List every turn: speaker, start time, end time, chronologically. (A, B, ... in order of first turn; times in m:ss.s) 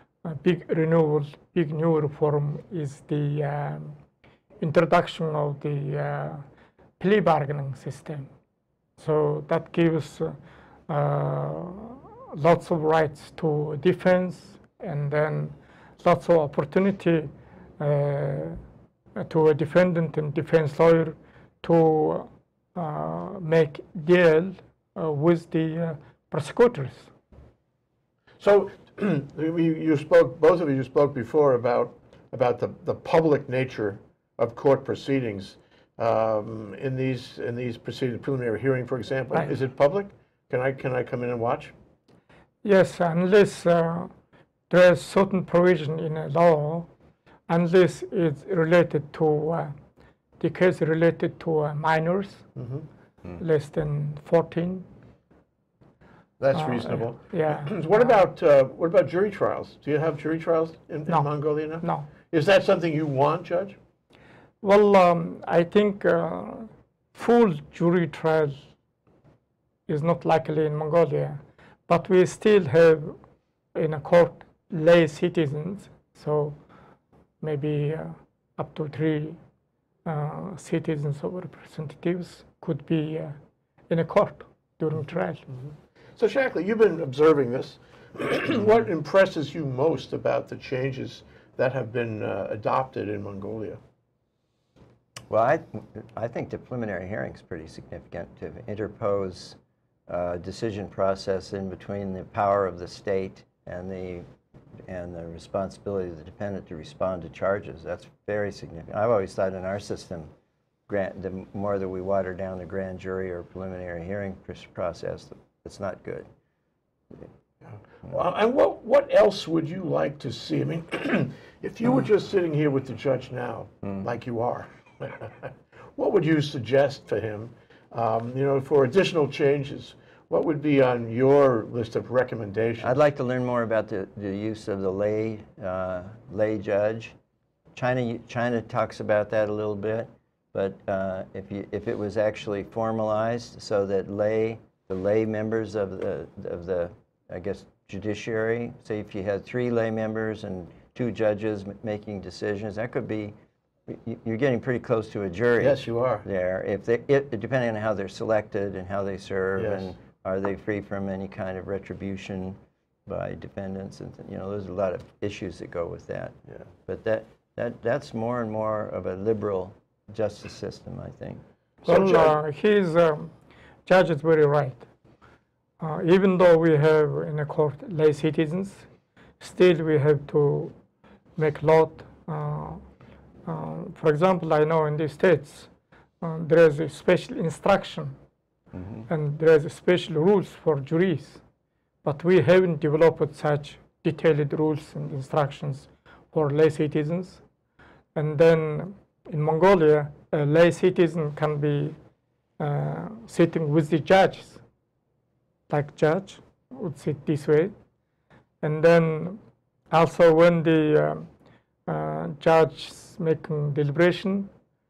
0:00.2-0:04.0 A
0:04.6-0:06.4 A
0:07.0-0:08.3 A
0:09.0-0:10.4 A
0:10.9-0:18.6 A
0:19.2-0:27.1 A
0:28.4-0:41.7 B
0:42.6-0:44.1 A
0:44.7-0:46.9 A
0:47.5-0:49.8 A
0:50.4-0:52.4 A
0:52.6-0:52.9 B
0:53.4-0:54.9 A
0:56.4-1:03.8 B
0:56.6-0:58.1 A
1:01.8-1:02.1 A
1:04.6-1:08.6 A
1:09.9-1:13.2 A
1:13.7-1:16.6 A
1:17.4-1:19.4 A
1:20.1-1:23.4 A
1:23.9-1:25.4 A
1:26.2-1:33.8 B
1:35.3-1:39.6 C
1:40.1-1:44.3 C
1:44.9-1:50.3 C
1:50.9-1:56.3 C
1:58.1-2:13.0 B
2:12.8-2:17.2 C
2:17.8-2:33.4 C
2:33.9-2:46.4 C
2:35.6-2:36.3 B
2:39.6-2:39.9 B
2:46.9-2:51.4 C
2:51.8-2:52.4 B
2:51.9-2:53.3 A
2:53.9-2:54.9 A
2:55.8-2:58.9 A
2:59.4-3:00.7 A
3:01.4-3:02.8 A
3:03.5-3:05.7 A
3:06.2-3:08.2 A
3:08.8-3:09.0 C
3:09.1-3:11.4 A
3:12.0-3:17.4 A
3:18.2-3:22.0 A
3:22.6-3:24.6 A
3:25.7-3:27.7 A
3:28.6-3:29.4 A
3:29.9-3:31.3 A
3:31.9-3:34.5 A